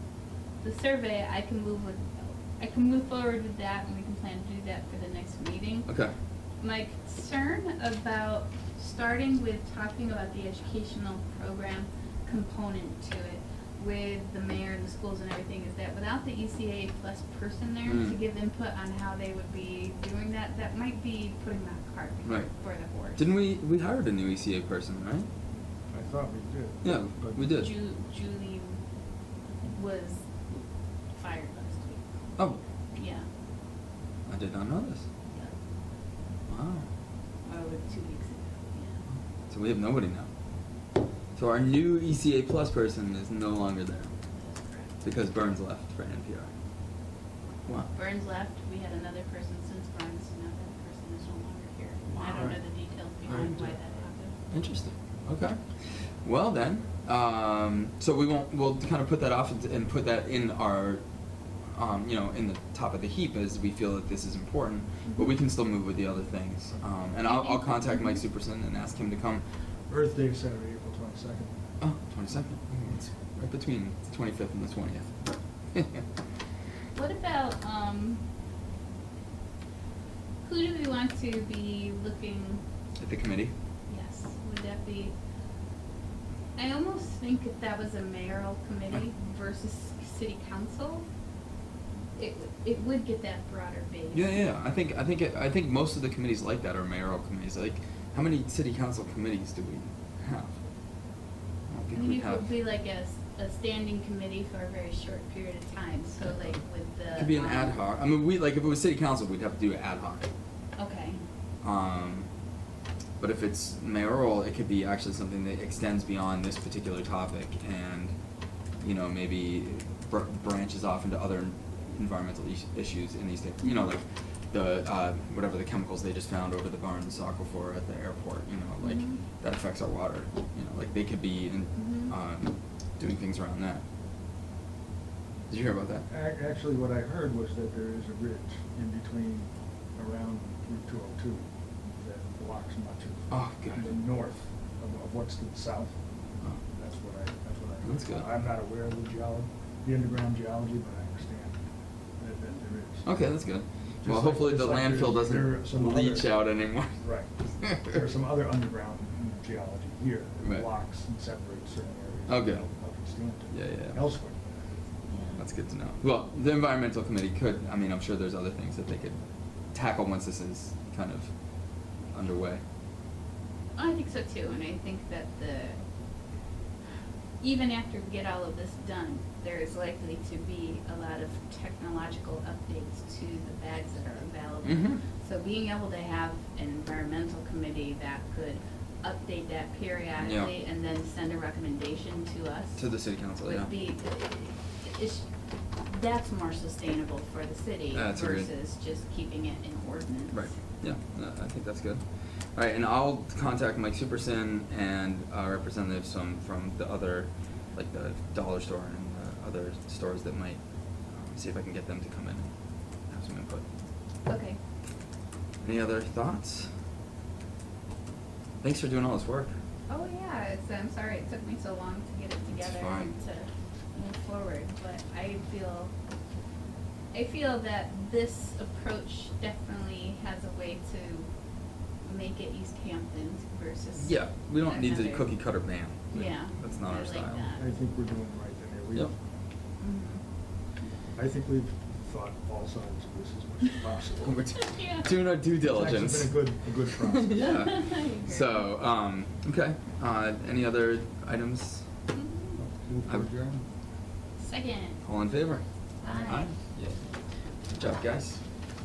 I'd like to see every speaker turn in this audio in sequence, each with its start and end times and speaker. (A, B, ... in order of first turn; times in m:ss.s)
0:00.6-0:05.9 A
0:05.9-0:06.2 B
0:06.6-0:23.3 A
0:17.8-0:18.2 B
0:22.2-0:22.5 B
0:23.0-0:25.3 B
0:25.9-0:27.6 C
0:26.8-0:27.7 B
0:27.4-0:28.8 A
0:29.6-0:30.2 A
0:31.1-0:32.1 A
0:32.9-0:33.3 A
0:34.3-0:35.0 B
0:35.3-0:35.6 A
0:36.5-0:36.9 B
0:37.5-0:39.0 A
0:39.5-0:40.3 B
0:41.4-0:44.1 B
0:44.3-0:45.0 A
0:45.0-0:46.5 B
0:47.7-0:47.9 B
0:47.9-0:54.3 A
0:52.1-0:52.6 B
0:52.3-0:52.6 C
0:53.3-0:53.8 C
0:54.5-0:55.6 B
0:56.2-1:01.0 B
1:01.7-1:09.4 B
1:07.2-1:08.2 A
1:09.9-1:11.6 C
1:11.8-1:15.1 B
1:15.7-1:16.0 B
1:16.9-1:18.2 A
1:20.4-1:22.6 A
1:23.0-1:23.5 B
1:23.9-1:25.1 A
1:26.6-1:31.1 A
1:32.2-1:34.4 A
1:34.1-1:40.6 B
1:41.7-1:42.5 B
1:41.9-1:47.8 A
1:46.2-1:46.5 B
1:47.1-1:50.3 B
1:50.8-1:51.2 A
1:51.6-1:52.3 B
1:53.2-1:58.1 B
1:58.8-2:13.8 B
2:03.6-2:03.9 A
2:08.8-2:09.2 A
2:11.8-2:12.1 A
2:15.5-2:16.0 B
2:16.1-2:26.0 C
2:23.3-2:23.9 B
2:26.7-2:31.6 C
2:27.8-2:28.3 B
2:32.2-2:33.1 C
2:33.0-2:38.0 B
2:34.0-2:36.4 C
2:37.0-2:44.8 C
2:40.4-2:40.7 B
2:42.3-2:42.7 B
2:43.5-2:44.0 B
2:45.1-2:45.4 A
2:45.4-2:49.2 B
2:49.7-2:51.3 B
2:52.0-2:52.6 B
2:53.8-2:55.8 A
2:57.4-3:15.3 A
3:04.6-3:05.0 B
3:10.2-3:10.5 B
3:12.8-3:13.7 B
3:15.8-3:20.5 A
3:17.9-3:18.5 B
3:20.3-3:22.0 B
3:22.5-3:32.5 B
3:33.1-3:33.6 B
3:34.3-3:34.6 A
3:35.6-3:36.7 B
3:38.6-3:39.5 B
3:39.9-3:45.9 A
3:42.5-3:43.1 B
3:47.1-3:51.3 A
3:52.0-3:55.4 A
3:54.0-3:57.5 B
3:56.1-3:57.7 A
3:57.6-3:59.1 C
3:59.8-4:00.2 A
4:01.2-4:04.5 C
4:04.2-4:11.8 B
4:04.6-4:05.1 A
4:05.6-4:07.7 C
4:07.4-4:08.7 A
4:12.1-4:12.6 A
4:12.6-4:13.6 C
4:14.4-4:15.0 A
4:15.0-4:17.0 B
4:16.0-4:16.5 A
4:17.7-4:18.4 B